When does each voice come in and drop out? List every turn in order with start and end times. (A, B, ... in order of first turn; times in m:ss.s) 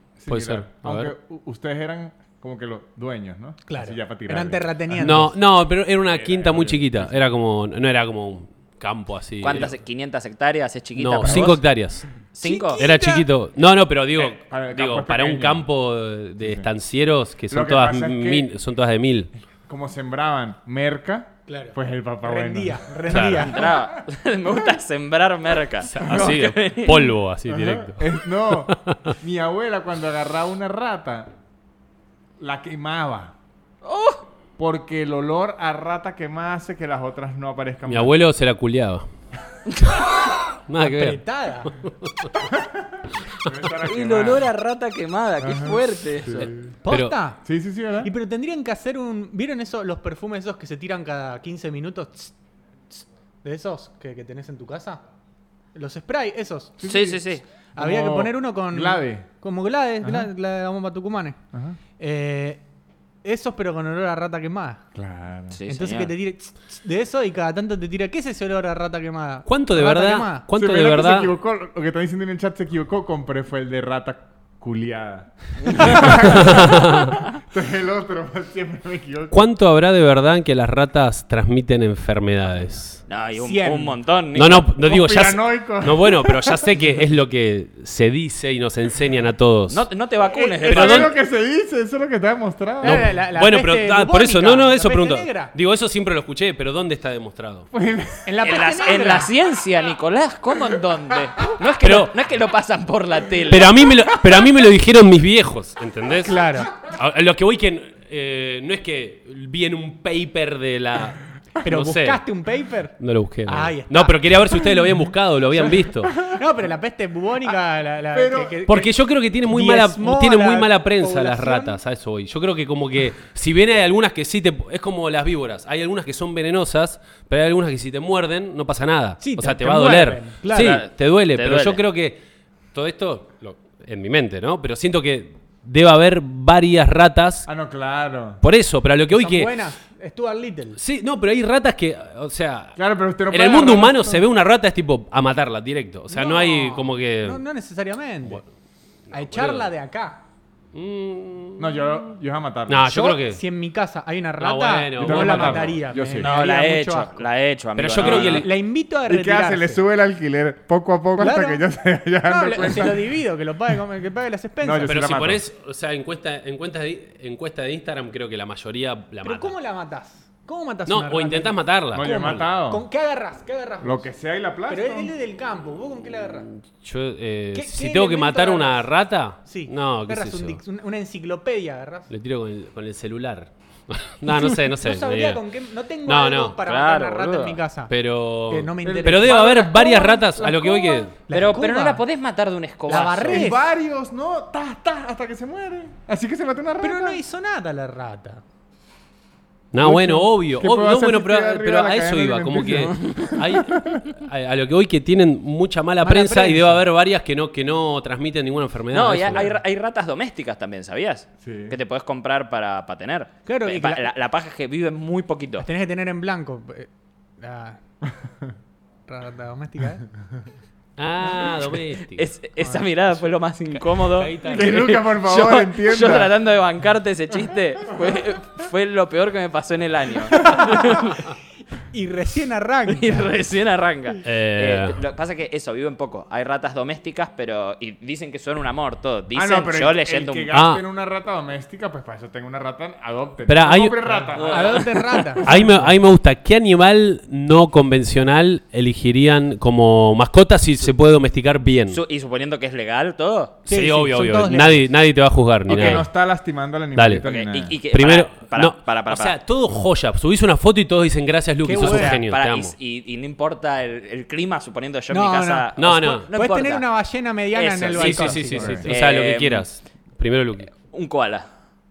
0:00.2-0:05.3 A
0:00.3-0:01.1 B
0:03.7-0:05.3 C
0:05.0-0:09.8 B
0:06.0-0:07.1 A
0:09.4-0:11.6 D
0:11.0-0:12.1 B
0:11.2-0:11.6 A
0:12.3-0:12.8 D
0:12.4-0:13.3 C
0:12.7-0:19.3 B
0:14.2-0:15.7 A
0:16.4-0:16.7 A
0:17.5-0:18.5 A
0:19.5-0:24.1 A
0:21.5-0:23.7 C
0:23.1-0:23.5 B
0:23.4-0:27.1 D
0:25.8-0:29.1 B
0:26.0-0:26.5 A
0:27.5-0:31.4 A
0:32.4-0:33.4 A
0:33.8-0:34.2 D
0:34.6-0:38.1 A
0:37.9-0:39.1 B
0:40.7-0:42.4 B
0:40.8-0:41.7 C
0:42.5-0:44.5 A
0:43.8-0:46.5 D
0:45.4-0:46.8 A
0:46.8-0:47.4 C
0:46.9-0:47.2 B
0:47.4-0:48.1 A
0:48.0-0:52.4 C
0:52.9-0:55.0 C
0:55.7-0:56.8 C
0:56.8-0:59.3 A
0:56.9-0:57.4 D
0:57.8-1:01.4 C
1:00.0-1:00.3 A
1:01.5-1:01.8 A
1:02.0-1:02.6 C
1:03.2-1:04.8 C
1:05.0-1:05.6 A
1:05.5-1:06.1 D
1:05.7-1:10.4 C
1:09.5-1:11.3 B
1:10.5-1:19.4 A
1:15.6-1:16.4 D
1:16.0-1:17.2 B
1:19.3-1:23.0 B
1:23.1-1:24.7 D
1:23.3-1:24.0 C
1:24.3-1:29.9 B
1:24.8-1:26.9 A
1:29.7-1:31.2 D
1:30.3-1:33.1 A
1:30.6-1:31.1 B
1:32.8-1:35.5 C
1:32.8-1:37.7 B
1:37.7-1:38.3 A
1:38.2-1:39.3 C
1:38.4-1:43.7 D
1:41.8-1:42.1 B
1:43.5-1:52.2 B
1:46.2-1:46.7 C
1:51.6-1:54.2 C
1:53.0-1:56.2 B
1:55.6-1:56.4 A
1:56.2-2:01.8 C
1:58.1-1:58.6 A
1:58.7-2:12.2 B
2:09.2-2:10.8 C
2:10.6-2:11.8 D
2:12.7-2:17.5 B
2:17.5-2:18.4 A
2:18.4-2:19.6 B
2:19.1-2:20.8 C
2:20.8-2:27.4 B
2:22.8-2:24.3 A
2:26.1-2:28.4 C
2:29.1-2:29.7 B
2:29.1-2:30.2 C
2:30.7-2:32.0 B
2:31.6-2:32.9 A
2:32.7-2:33.4 B
2:32.9-2:37.3 C
2:34.4-2:35.8 B
2:35.0-2:36.3 A
2:36.2-2:38.5 D
2:37.8-2:38.5 B
2:38.0-2:38.5 A
2:38.0-2:39.8 C
2:39.1-2:43.1 A
2:41.2-2:41.7 C
2:42.2-2:44.9 C
2:44.6-2:45.4 A
2:44.9-2:49.6 B
2:49.2-2:54.1 C
2:50.9-2:52.4 B
2:51.9-2:52.9 A
2:53.8-2:55.1 A
2:54.7-2:56.5 C
2:56.8-3:00.6 B
2:57.6-2:58.9 C
2:59.4-3:02.1 C
3:02.1-3:05.4 B
3:04.3-3:07.9 C
3:06.1-3:06.6 B
3:06.6-3:07.6 D
3:07.9-3:11.2 B
3:08.5-3:10.2 C
3:08.8-3:11.1 A
3:11.3-3:12.0 C
3:11.3-3:13.5 D
3:12.9-3:13.6 C
3:13.3-3:17.2 A
3:16.8-3:18.4 C
3:19.7-3:29.5 B
3:19.8-3:24.1 A
3:23.0-3:23.3 D
3:26.0-3:26.8 C
3:28.9-3:35.7 D
3:31.4-3:31.8 A
3:33.5-3:34.1 C
3:35.6-3:37.8 C
3:39.1-3:40.0 C
3:41.0-3:42.3 B
3:42.2-3:51.2 D
3:42.6-3:42.9 C
3:44.0-3:45.0 B
3:44.4-3:46.3 A
3:50.4-3:51.2 C
3:51.8-3:53.2 C
3:52.9-4:00.5 D
3:54.2-3:55.0 B
3:59.3-4:05.8 A
4:00.5-4:00.8 B
4:03.5-4:04.6 B
4:04.5-4:05.8 C
4:05.4-4:12.0 B
4:11.9-4:13.6 D
4:13.6-4:16.1 B
4:13.7-4:14.9 C
4:15.7-4:17.8 A
4:15.7-4:16.0 D
4:17.0-4:17.2 B
4:17.2-4:19.4 D
4:17.9-4:22.8 B
4:21.6-4:22.2 C
4:21.7-4:26.9 D
4:25.1-4:28.8 C
4:25.8-4:26.3 B
4:27.5-4:29.7 D
4:27.9-4:30.7 B
4:28.6-4:28.9 A
4:30.9-4:31.5 D